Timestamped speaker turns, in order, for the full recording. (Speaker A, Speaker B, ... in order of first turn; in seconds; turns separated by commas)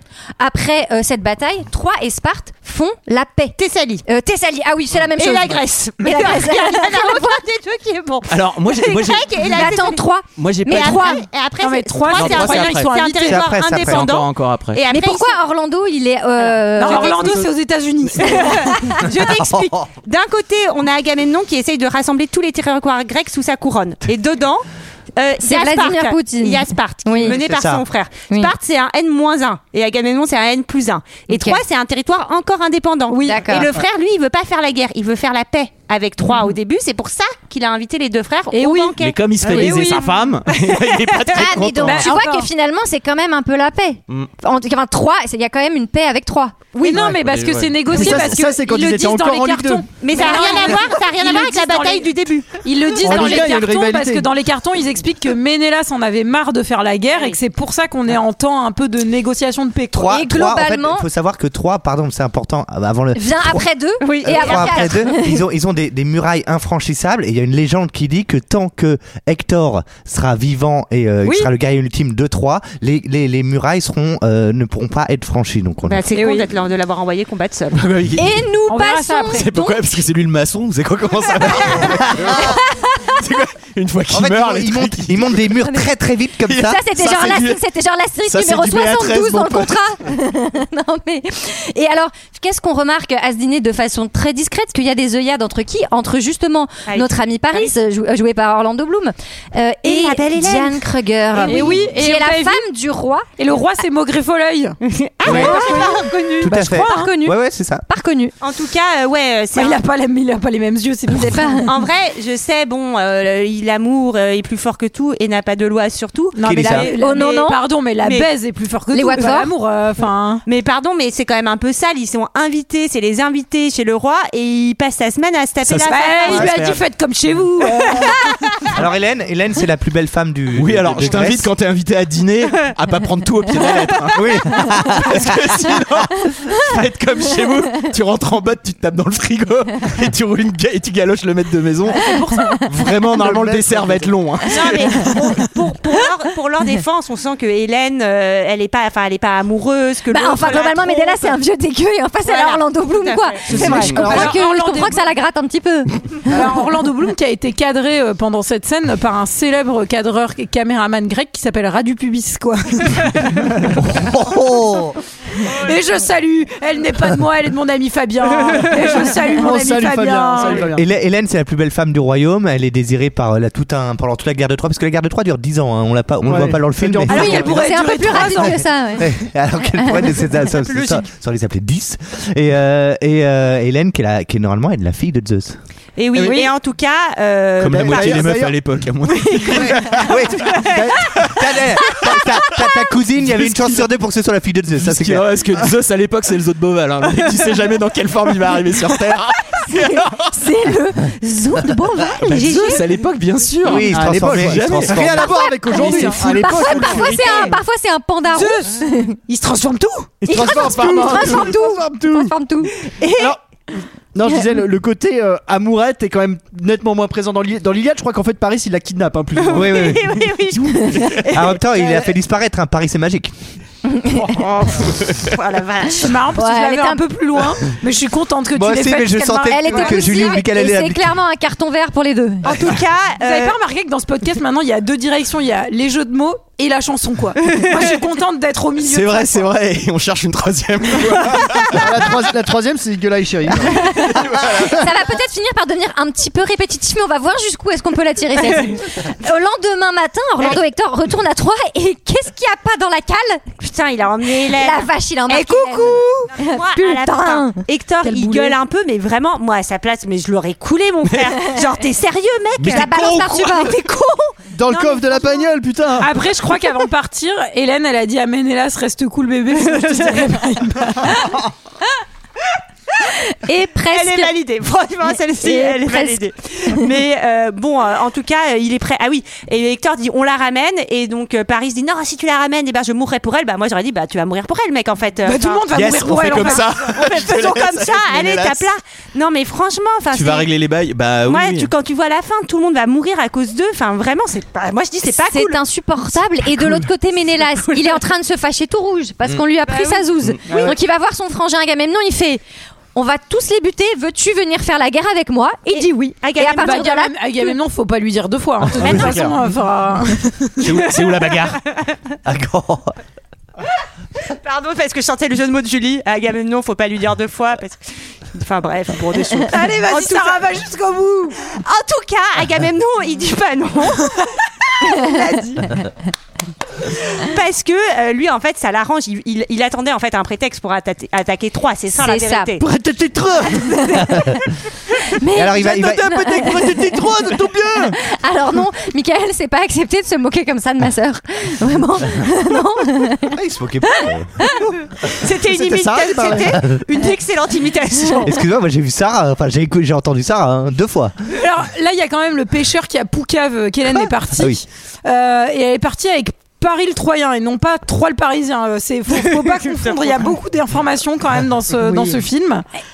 Speaker A: 0.4-7.4, Speaker B: 3.6-4.0, Speaker B: 5.2-10.1, Speaker C: 8.3-9.4, Speaker A: 9.5-11.2, Speaker C: 10.4-11.1, Speaker B: 10.6-15.4, Speaker D: 11.6-13.5, Speaker C: 12.1-13.0, Speaker E: 13.2-14.2, Speaker C: 13.7-14.8, Speaker A: 14.9-17.5, Speaker D: 16.7-18.8, Speaker B: 16.9-17.4, Speaker B: 18.2-24.6, Speaker E: 19.2-19.8, Speaker B: 25.2-40.0, Speaker A: 25.4-27.4, Speaker E: 27.3-27.8, Speaker A: 31.3-31.6, Speaker D: 33.1-33.5, Speaker A: 33.2-33.7, Speaker D: 38.5-40.2, Speaker C: 39.0-42.1, Speaker B: 40.8-41.4, Speaker A: 41.3-46.6, Speaker D: 41.8-42.5, Speaker B: 46.7-47.0, Speaker D: 46.8-60.1, Speaker C: 46.9-48.4, Speaker F: 47.9-49.9, Speaker B: 50.0-53.4, Speaker A: 50.2-50.6, Speaker F: 53.0-54.3, Speaker B: 57.1-57.4, Speaker E: 59.9-63.7, Speaker A: 60.1-61.1, Speaker A: 63.1-65.4, Speaker B: 64.0-65.0, Speaker E: 64.2-76.1, Speaker D: 71.2-71.5, Speaker B: 75.9-77.8, Speaker D: 76.1-76.5, Speaker C: 77.7-78.4, Speaker A: 78.2-80.0, Speaker D: 78.7-79.5, Speaker C: 79.3-85.5, Speaker A: 82.3-83.2, Speaker E: 84.1-86.8, Speaker A: 86.5-103.3, Speaker C: 86.6-87.6, Speaker C: 88.3-89.8, Speaker B: 96.9-97.7, Speaker B: 99.8-100.8, Speaker B: 101.3-101.9, Speaker D: 101.4-102.6, Speaker D: 103.4-107.1, Speaker B: 104.8-106.5, Speaker E: 105.3-105.5, Speaker A: 105.4-105.7, Speaker E: 106.4-107.8, Speaker A: 106.6-108.3, Speaker B: 108.4-109.8, Speaker D: 109.5-111.7, Speaker A: 111.1-111.7, Speaker B: 111.7-117.5, Speaker D: 116.3-120.4, Speaker E: 116.4-116.9, Speaker A: 117.0-117.6, Speaker B: 118.0-118.3, Speaker A: 118.9-119.5, Speaker B: 120.5-126.5, Speaker C: 125.6-126.8, Speaker D: 125.9-128.2, Speaker B: 127.8-128.2, Speaker E: 128.8-131.5, Speaker C: 130.6-142.1, Speaker E: 134.1-135.4, Speaker A: 142.1-142.6, Speaker C: 142.7-145.2, Speaker F: 142.9-144.2, Speaker B: 144.5-151.4, Speaker A: 150.1-156.0, Speaker B: 152.2-154.0, Speaker F: 153.5-154.3, Speaker D: 153.6-155.0, Speaker D: 156.3-163.5, Speaker E: 163.8-165.0, Speaker D: 165.4-170.7, Speaker F: 169.3-170.8, Speaker E: 170.8-177.5, Speaker F: 176.2-177.6, Speaker D: 177.1-178.6, Speaker A: 177.1-179.1, Speaker E: 178.0-185.6, Speaker A: 179.7-180.1, Speaker B: 180.5-181.1, Speaker B: 186.0-188.4, Speaker F: 186.2-186.5, Speaker D: 186.2-186.5, Speaker C: 187.6-189.7, Speaker F: 187.7-188.6, Speaker B: 189.3-191.0, Speaker E: 189.6-190.6, Speaker F: 190.7-191.0, Speaker E: 191.3-195.3, Speaker F: 193.3-193.9, Speaker C: 194.8-200.3, Speaker A: 199.7-202.8, Speaker C: 202.2-205.1, Speaker E: 203.6-205.3, Speaker F: 203.9-207.6, Speaker A: 205.2-209.2, Speaker D: 205.8-207.6, Speaker D: 208.3-210.1, Speaker F: 210.2-212.3, Speaker A: 210.3-212.7, Speaker B: 213.0-213.4, Speaker F: 214.1-220.0, Speaker B: 219.4-222.1, Speaker E: 219.5-220.2, Speaker E: 221.3-223.3, Speaker A: 223.9-224.2, Speaker C: 224.8-225.3, Speaker B: 225.2-226.2, Speaker D: 226.0-230.4, Speaker A: 226.3-227.0, Speaker E: 228.5-231.1, Speaker A: 229.5-232.6, Speaker B: 232.4-233.6, Speaker D: 233.2-239.4, Speaker B: 237.6-237.8, Speaker C: 238.8-242.1, Speaker F: 241.7-243.9, Speaker A: 243.7-253.4, Speaker C: 243.7-244.8, Speaker B: 253.6-262.9, Speaker A: 254.3-258.5, Speaker D: 258.1-258.5, Speaker C: 261.1-261.3, Speaker C: 262.6-263.7, Speaker A: 262.7-264.3, Speaker F: 264.5-266.1, Speaker B: 264.7-265.5, Speaker D: 266.0-271.3, Speaker B: 269.5-270.4, Speaker A: 273.3-274.3, Speaker B: 273.9-285.7, Speaker A: 275.4-276.2, Speaker D: 285.2-286.7, Speaker C: 285.7-288.6, Speaker B: 286.3-290.5, Speaker C: 290.1-291.7, Speaker B: 291.3-295.6, Speaker A: 295.2-302.4, Speaker B: 299.6-300.8, Speaker A: 302.9-307.6, Speaker B: 305.7-306.9, Speaker D: 306.6-310.6, Speaker B: 308.8-309.3, Speaker F: 308.8-309.4, Speaker C: 310.6-311.6, Speaker B: 311.0-311.9, Speaker E: 312.2-312.9, Speaker B: 314.3-317.8, Speaker B: 318.3-320.4, Speaker D: 319.5-321.4, Speaker B: 321.5-324.3, Speaker B: 324.8-325.8, Speaker B: 326.9-332.6, Speaker A: 331.9-332.5, Speaker F: 332.6-334.1, Speaker A: 333.6-334.4, Speaker A: 335.1-337.1, Speaker E: 335.3-336.1, Speaker F: 335.5-338.0, Speaker A: 337.9-343.3, Speaker E: 343.2-344.6, Speaker A: 343.9-344.5, Speaker B: 345.1-348.4, Speaker F: 345.4-346.6, Speaker E: 346.5-346.8, Speaker E: 348.2-351.1, Speaker D: 351.3-362.6, Speaker E: 354.4-354.6, Speaker B: 359.1-360.3